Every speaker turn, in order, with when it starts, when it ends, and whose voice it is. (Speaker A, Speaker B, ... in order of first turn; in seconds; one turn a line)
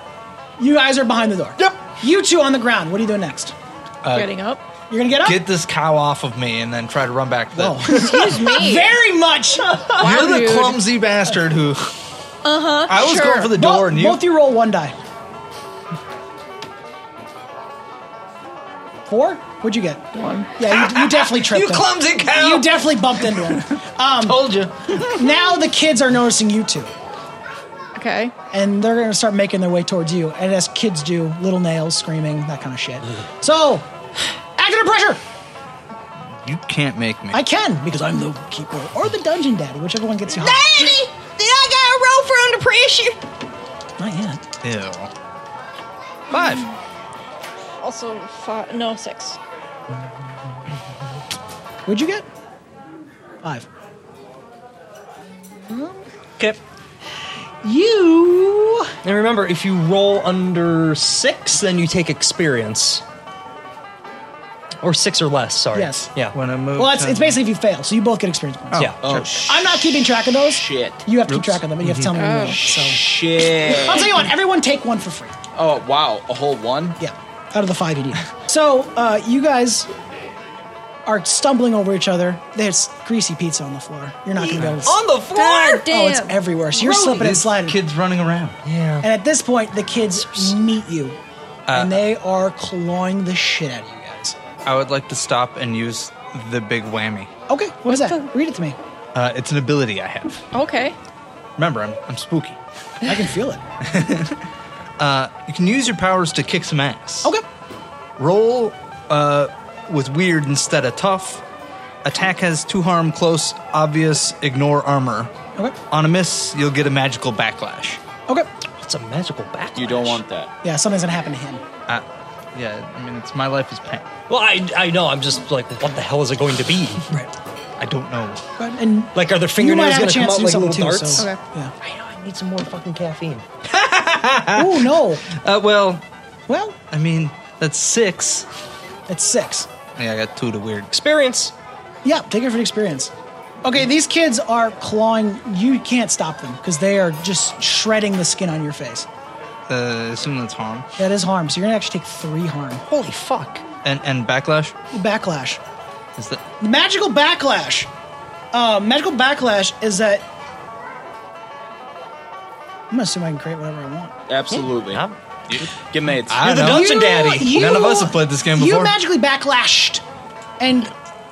Speaker A: 0.6-3.5
Speaker B: 4.0-4.3
Speaker C: 4.1-4.6
Speaker A: 4.9-5.4
Speaker B: 5.2-8.4
Speaker A: 7.5-9.8
Speaker C: 7.9-8.9
Speaker D: 9.7-10.0
Speaker B: 9.9-11.9
Speaker C: 10.0-10.8
Speaker C: 12.4-13.6
Speaker B: 12.9-14.2
Speaker A: 13.4-14.9
Speaker A: 19.1-20.0
Speaker C: 20.1-20.5
Speaker A: 20.6-24.4
Speaker B: 20.7-23.7
Speaker B: 24.2-25.2
Speaker A: 25.0-26.9
Speaker C: 27.9-28.3
Speaker A: 28.5-33.8
Speaker A: 34.6-35.2
Speaker B: 36.4-37.4
Speaker A: 37.3-40.9
Speaker C: 40.3-43.2
Speaker A: 44.0-44.4
Speaker B: 44.6-45.1
Speaker B: 46.3-46.6
Speaker C: 47.8-49.4
Speaker A: 51.9-52.2
Speaker A: 57.6-58.9
Speaker D: 59.0-63.0
Speaker D: 64.8-66.3
Speaker A: 65.7-66.1
Speaker B: 66.3-67.4
Speaker A: 66.8-68.9
Speaker B: 68.7-69.3
Speaker E: 69.0-69.8
Speaker A: 69.5-73.0
Speaker E: 70.5-71.0
Speaker B: 71.3-72.1
Speaker C: 72.1-72.6
Speaker E: 72.5-74.2
Speaker A: 73.6-75.3
Speaker E: 75.5-77.0
Speaker A: 77.0-79.9
Speaker A: 81.0-85.0
Speaker B: 84.6-84.8
Speaker D: 84.6-85.8
Speaker C: 85.3-86.9
Speaker A: 85.7-87.8
Speaker B: 86.9-88.6
Speaker D: 88.6-89.1
Speaker A: 89.0-91.2
Speaker B: 91.7-92.0
Speaker A: 91.7-94.3
Speaker B: 94.7-97.3
Speaker A: 97.5-98.8
Speaker C: 97.9-98.2
Speaker B: 99.1-100.4
Speaker C: 100.5-101.0
Speaker B: 101.6-102.6
Speaker A: 103.0-103.6
Speaker B: 103.8-104.4
Speaker B: 105.0-107.3
Speaker B: 108.2-111.4
Speaker B: 112.0-115.3
Speaker B: 115.9-118.0
Speaker D: 118.8-120.2
Speaker E: 119.8-120.5
Speaker A: 120.6-121.6
Speaker B: 121.9-124.1
Speaker D: 124.3-127.3
Speaker B: 127.8-128.4
Speaker A: 128.6-131.7
Speaker D: 129.1-131.2
Speaker D: 131.8-133.4
Speaker B: 133.7-136.0
Speaker A: 134.6-135.2
Speaker A: 136.5-136.8
Speaker B: 136.9-138.4
Speaker A: 139.1-139.7
Speaker B: 139.9-140.9
Speaker D: 140.9-141.5
Speaker A: 142.0-143.1
Speaker A: 143.6-149.1
Speaker B: 149.7-150.8
Speaker A: 151.0-152.8
Speaker D: 152.9-153.6
Speaker B: 153.8-154.7
Speaker A: 154.9-155.6
Speaker B: 156.2-156.4
Speaker A: 156.6-157.9
Speaker A: 158.5-160.2
Speaker A: 162.9-164.1
Speaker E: 164.3-165.0
Speaker D: 164.5-165.2
Speaker E: 165.8-166.8
Speaker B: 166.2-168.9
Speaker D: 166.4-167.6
Speaker A: 166.6-170.0
Speaker A: 170.6-170.9